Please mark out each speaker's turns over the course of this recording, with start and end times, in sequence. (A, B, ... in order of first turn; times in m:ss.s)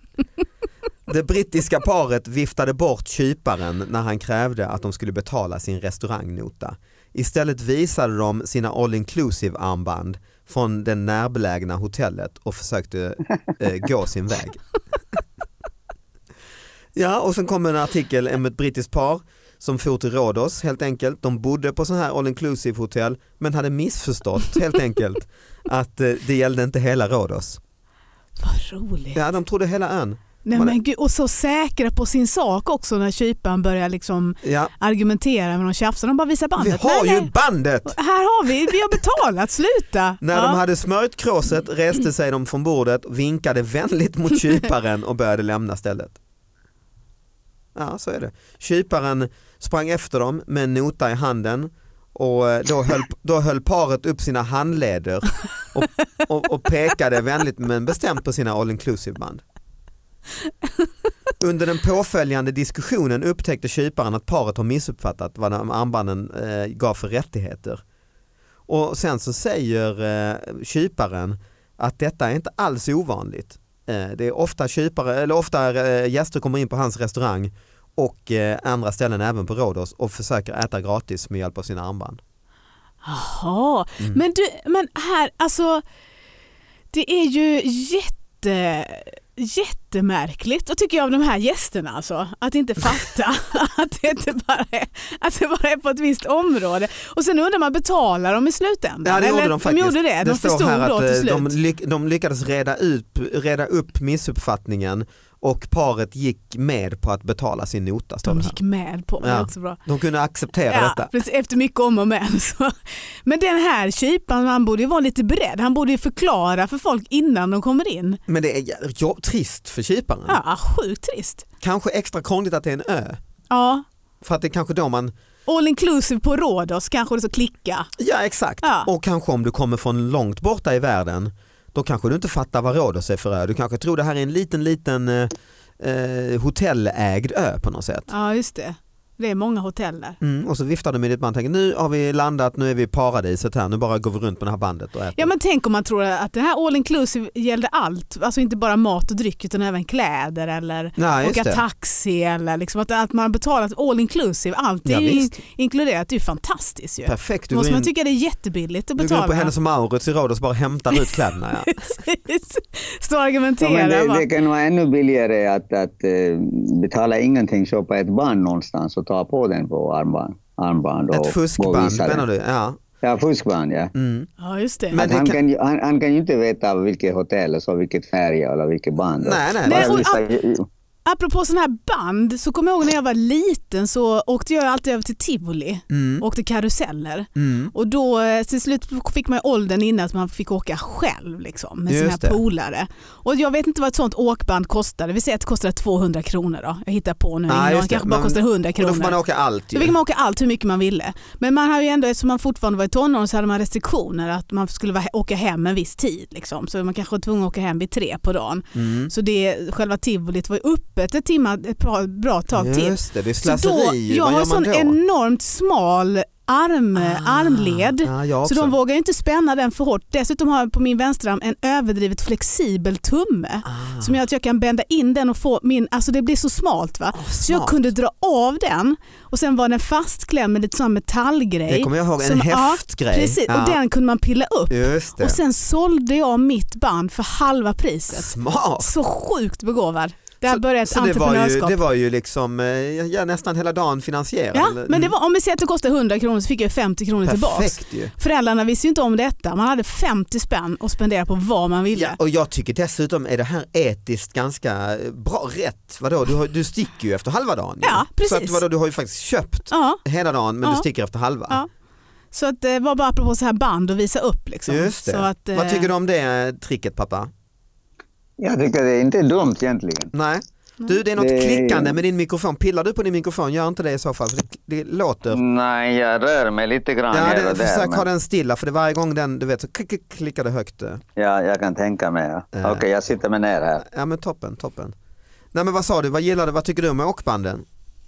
0:01.1-0:15.2 A
0:16.9-0:27.6 A
0:28.4-0:29.2 B
0:29.1-0:30.8 A
0:30.4-0:37.3 B
0:34.4-0:34.7 A
0:36.6-0:38.0 A
0:37.8-0:40.6 B
0:40.2-0:46.2 A
0:47.7-0:59.4 A
1:01.4-1:07.8 A
1:08.7-1:22.2 A
1:23.0-1:25.8 B
1:26.9-1:41.5 B
1:39.0-1:48.6 A
1:48.2-1:49.8 B
1:49.2-1:51.1 A
1:50.7-1:58.2 B
1:58.3-2:00.4 A
2:00.3-2:01.4 B
2:01.6-2:03.2 A
2:03.5-2:03.8 B
2:04.2-2:05.1 A
2:05.5-2:07.9 B
2:08.0-2:18.1 A
2:08.6-2:08.9 B
2:18.1-2:20.2 B
2:20.2-2:25.3 A
2:25.2-2:39.5 B
2:31.0-2:31.6 A
2:34.8-2:35.3 A
2:37.0-2:37.9 A
2:39.0-2:41.9 A
2:41.6-2:44.2 B
2:43.6-2:52.2 C
2:51.1-2:52.8 A
2:53.0-2:53.9 C
2:53.9-2:54.3 A
2:54.4-2:55.0 B
2:54.9-2:55.4 A
2:55.0-3:00.7 C
2:59.2-3:00.0 A
2:59.6-3:00.2 B
3:01.0-3:19.2 B
3:05.9-3:06.2 A
3:07.4-3:07.7 A
3:11.9-3:12.4 A
3:17.5-3:19.9 A
3:19.7-4:01.8 B
3:28.7-3:29.1 A
3:32.5-3:35.0 A
3:37.0-3:38.7 A
3:43.6-3:44.1 A
3:47.1-3:47.8 A
3:51.7-3:53.8 A
3:54.7-3:55.4 A
3:58.1-3:58.9 A
4:00.4-4:05.1 A
4:04.5-4:12.2 B
4:07.2-4:08.1 A
4:11.9-4:21.6 A
4:17.8-4:18.6 B
4:19.7-4:20.0 B
4:22.3-4:25.9 B
4:24.7-4:27.3 A
4:28.4-4:30.1 C
4:30.1-4:35.4 A
4:31.2-4:32.0 C
4:35.3-4:38.0 C
4:37.1-4:41.0 A
4:41.2-4:43.8 C
4:42.5-4:42.8 A
4:43.8-4:44.9 A
4:45.5-4:47.6 A